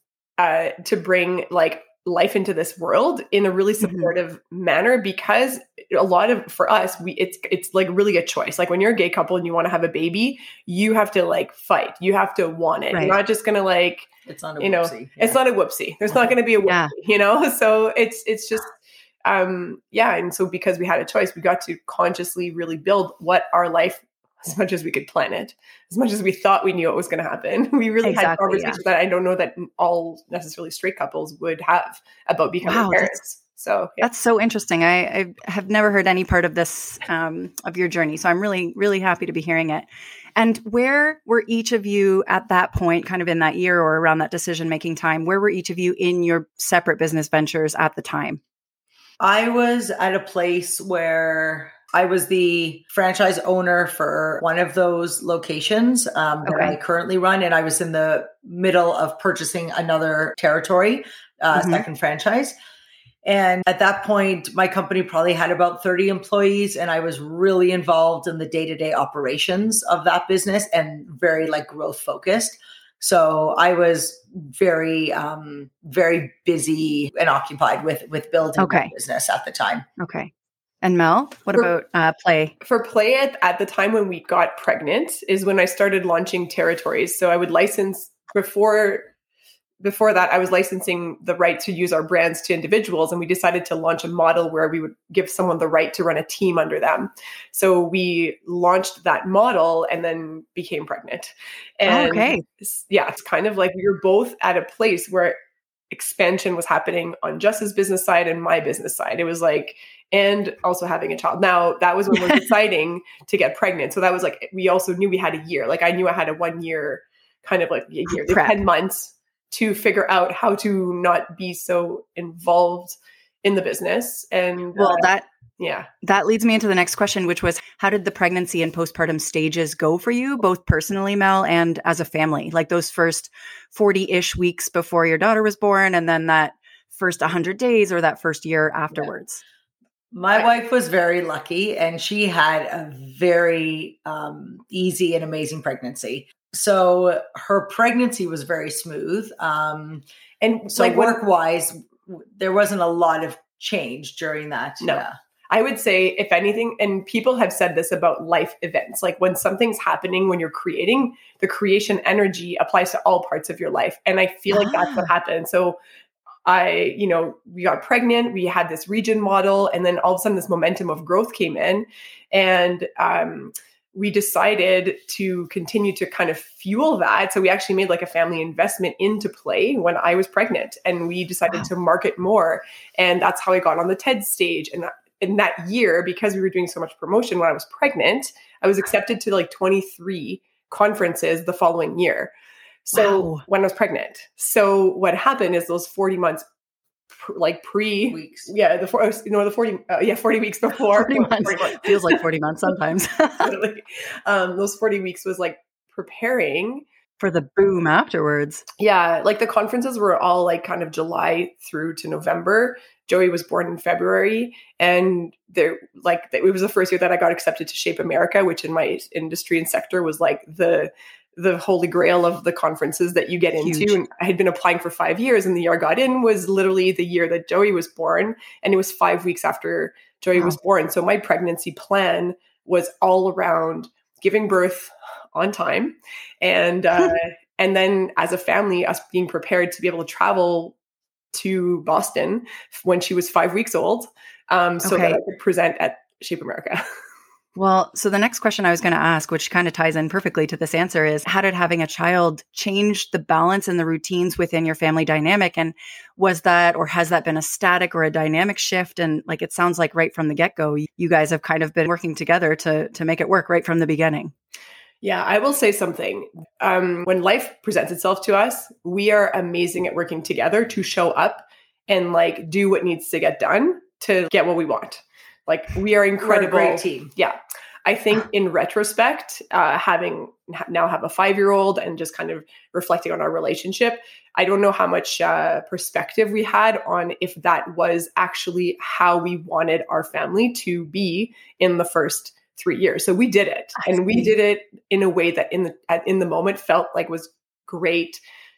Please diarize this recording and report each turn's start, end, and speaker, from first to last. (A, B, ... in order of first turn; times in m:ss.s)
0:00.4-0:14.1 A
0:03.8-0:04.1 B
0:14.3-0:15.4 C
0:14.6-0:18.7 A
0:16.7-0:16.9 B
0:19.2-0:34.0 A
0:28.0-0:28.8 B
0:32.6-0:33.1 B
0:34.0-0:48.4 B
0:49.2-1:02.5 C
0:56.5-0:56.8 B
1:01.5-1:01.8 B
1:03.2-1:19.9 C
1:18.6-1:18.9 B
1:20.0-1:20.3 B
1:20.8-1:22.5 B
1:22.6-1:29.1 A
1:29.8-1:45.3 A
1:41.8-1:42.4 B
1:45.9-2:05.9 A
1:58.1-1:58.5 B
2:04.8-2:05.2 B
2:06.0-2:19.4 B
2:20.1-2:30.0 C
2:30.4-2:31.2 A
2:30.7-2:35.2 C
2:34.8-2:45.8 A
2:44.5-2:45.1 B
2:46.5-3:12.3 A
3:12.8-3:16.4 A
3:13.0-3:13.4 B
3:17.1-3:22.2 A
3:18.1-3:18.5 C
3:21.0-3:23.5 B
3:23.4-3:26.8 A
3:27.2-3:28.6 B
3:28.8-4:00.8 A
3:43.6-3:44.0 B
4:01.3-4:06.8 A
4:04.8-4:05.2 B
4:07.6-4:24.3 B
4:25.0-4:58.2 A
4:36.2-4:37.1 C
4:53.8-4:54.3 B